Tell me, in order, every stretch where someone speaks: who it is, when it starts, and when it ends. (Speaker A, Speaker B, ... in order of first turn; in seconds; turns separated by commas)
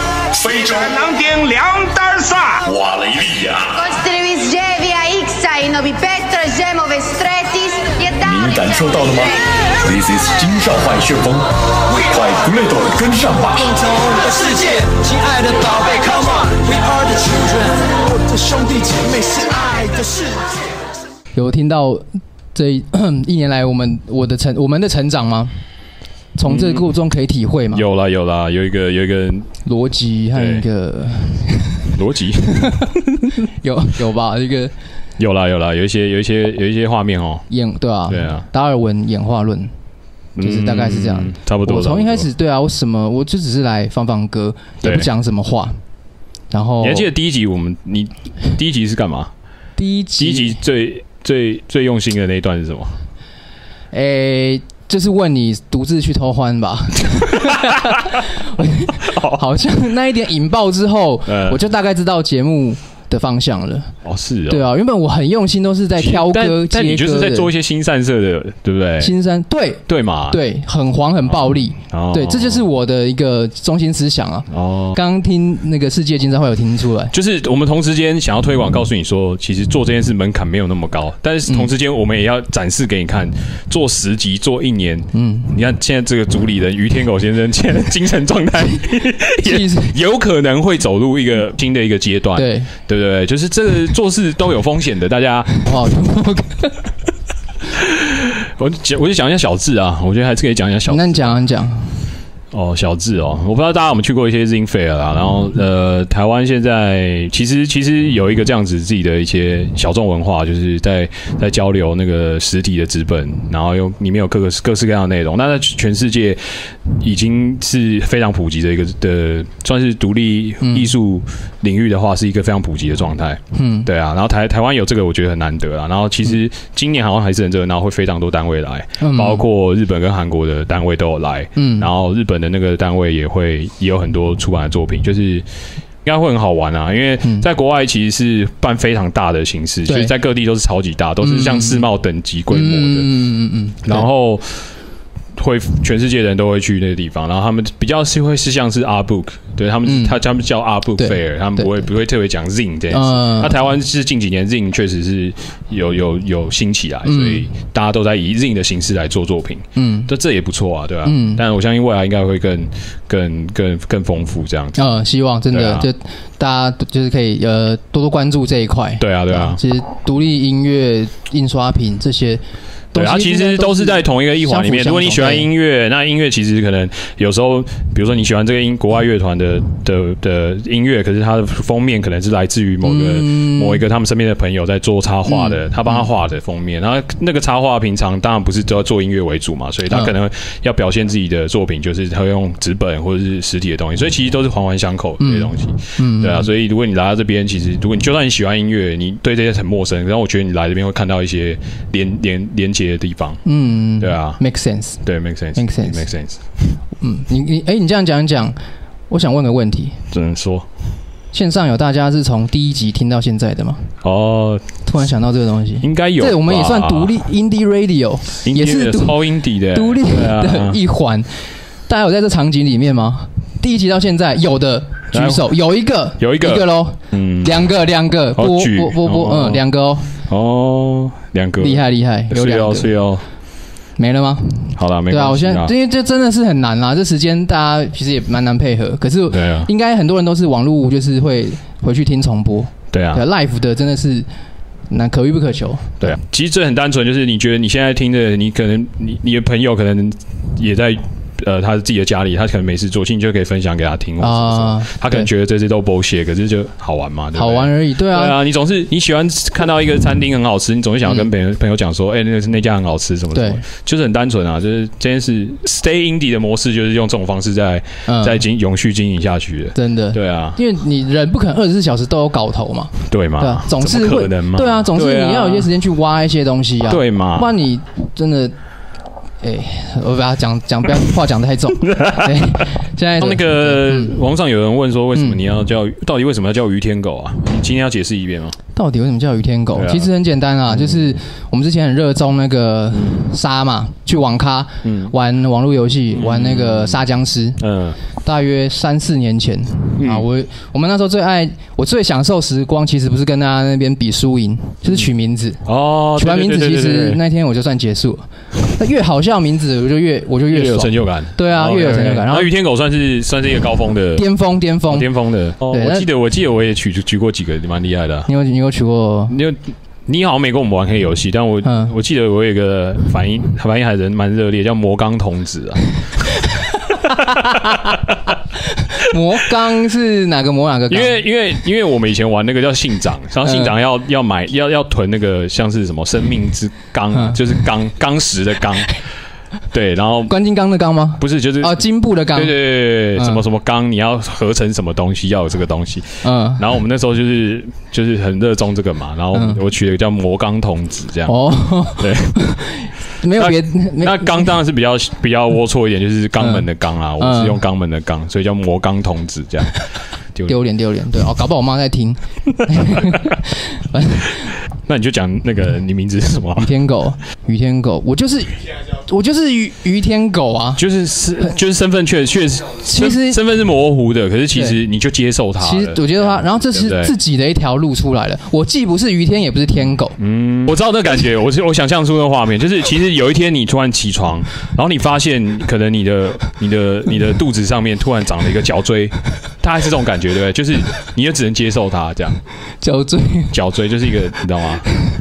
Speaker A: 0.3-1.0, Speaker B: 1.2-2.3, Speaker A: 2.6-3.8, Speaker C: 3.8-8.4, Speaker A: 8.2-13.8, Speaker B: 13.7-20.5, Speaker D: 21.4-25.5, Speaker D: 26.4-27.8, Speaker E: 26.4-26.9, Speaker E: 27.7-29.5, Speaker D: 29.6-31.9, Speaker E: 30.3-30.6, Speaker E: 32.0-32.9, Speaker D: 32.6-32.9, Speaker D: 33.6-34.7, Speaker E: 35.2-37.5, Speaker D: 37.5-39.7, Speaker E: 38.1-38.5, Speaker E: 40.4-42.3, Speaker D: 40.4-45.8, Speaker E: 44.8-45.1, Speaker D: 46.5-47.1, Speaker E: 46.8-49.3, Speaker D: 49.8-50.6, Speaker E: 50.2-52.9, Speaker D: 53.9-63.9, Speaker E: 59.0-59.4, Speaker E: 61.3-61.6, Speaker E: 64.0-64.7, Speaker D: 64.5-67.5, Speaker E: 66.0-69.1, Speaker D: 69.0-77.1, Speaker E: 69.9-70.4, Speaker E: 71.3-72.7, Speaker E: 74.5-75.0, Speaker E: 77.1-95.5, Speaker D: 85.1-85.5, Speaker D: 89.4-89.9, Speaker D: 92.4-92.7, Speaker D: 95.6-96.8, Speaker E: 97.7-101.4, Speaker D: 100.9-102.0, Speaker E: 102.5-135.5, Speaker D: 120.6-120.9, Speaker D: 123.5-123.9, Speaker D: 129.0-129.4, Speaker D: 131.6-131.9, Speaker E: 136.0-143.1, Speaker D: 139.9-140.1, Speaker D: 141.2-141.9, Speaker D: 142.5-144.1, Speaker E: 143.8-144.7, Speaker E: 145.4-164.9, Speaker D: 149.9-150.2, Speaker D: 151.0-151.9, Speaker D: 152.9-153.7, Speaker D: 157.1-157.5, Speaker D: 159.8-160.1, Speaker D: 161.1-161.4, Speaker D: 164.8-172.4, Speaker E: 165.5-165.9, Speaker E: 169.0-169.6, Speaker D: 172.9-175.5, Speaker E: 172.9-203.4, Speaker D: 182.8-183.8, Speaker D: 185.3-186.1, Speaker D: 195.2-196.5, Speaker D: 203.4-205.0, Speaker E: 204.0-204.4, Speaker E: 205.0-206.4, Speaker D: 205.6-206.1, Speaker D: 207.0-208.6, Speaker D: 209.1-210.0, Speaker E: 210.1-210.7, Speaker D: 211.3-213.9, Speaker E: 214.0-214.7, Speaker D: 214.9-219.2, Speaker E: 215.8-217.2, Speaker E: 218.4-220.8, Speaker D: 219.7-230.1, Speaker E: 225.1-225.6, Speaker E: 226.2-227.6, Speaker E: 228.3-229.6, Speaker E: 230.3-233.2, Speaker D: 231.6-232.9, Speaker D: 234.0-244.3, Speaker E: 234.8-235.7, Speaker E: 239.3-239.7, Speaker E: 242.9-243.2, Speaker D: 244.9-246.2, Speaker E: 246.0-270.6, Speaker D: 254.2-255.3, Speaker D: 257.4-258.4, Speaker D: 263.3-263.6, Speaker D: 268.1-268.4, Speaker D: 269.8-278.6, Speaker E: 273.1-275.7, Speaker E: 276.9-277.5, Speaker D: 279.4-284.2, Speaker E: 281.9-282.4, Speaker E: 283.2-288.6, Speaker D: 285.1-285.4, Speaker D: 288.8-297.6, Speaker E: 289.7-290.1, Speaker E: 290.7-291.2, Speaker E: 292.9-293.2, Speaker E: 294.8-295.1, Speaker E: 296.1-297.0, Speaker E: 297.6-298.0, Speaker D: 298.2-305.6, Speaker E: 300.0-300.2, Speaker E: 305.7-307.2, Speaker D: 306.2-312.5, Speaker E: 310.5-314.3, Speaker D: 314.2-315.1, Speaker E: 314.8-318.3, Speaker D: 315.7-316.1, Speaker D: 318.3-319.4, Speaker E: 319.3-325.9, Speaker D: 321.6-321.9, Speaker D: 327.1-327.7, Speaker E: 327.4-327.9, Speaker D: 329.0-331.2, Speaker E: 330.9-339.0, Speaker D: 333.4-333.7, Speaker D: 337.1-337.4, Speaker E: 339.7-340.3, Speaker D: 340.3-342.6, Speaker E: 341.2-352.4, Speaker D: 343.1-343.4, Speaker D: 346.2-346.6, Speaker D: 349.3-349.6, Speaker D: 351.3-354.5, Speaker E: 353.4-359.7, Speaker D: 356.4-356.7, Speaker D: 357.2-357.6, Speaker D: 360.5-364.3, Speaker E: 364.9-366.7, Speaker D: 366.6-370.8, Speaker E: 370.8-377.1, Speaker D: 372.9-373.4, Speaker D: 374.6-374.8, Speaker D: 375.6-380.2, Speaker E: 380.2-392.4, Speaker D: 392.8-393.5, Speaker E: 393.5-394.9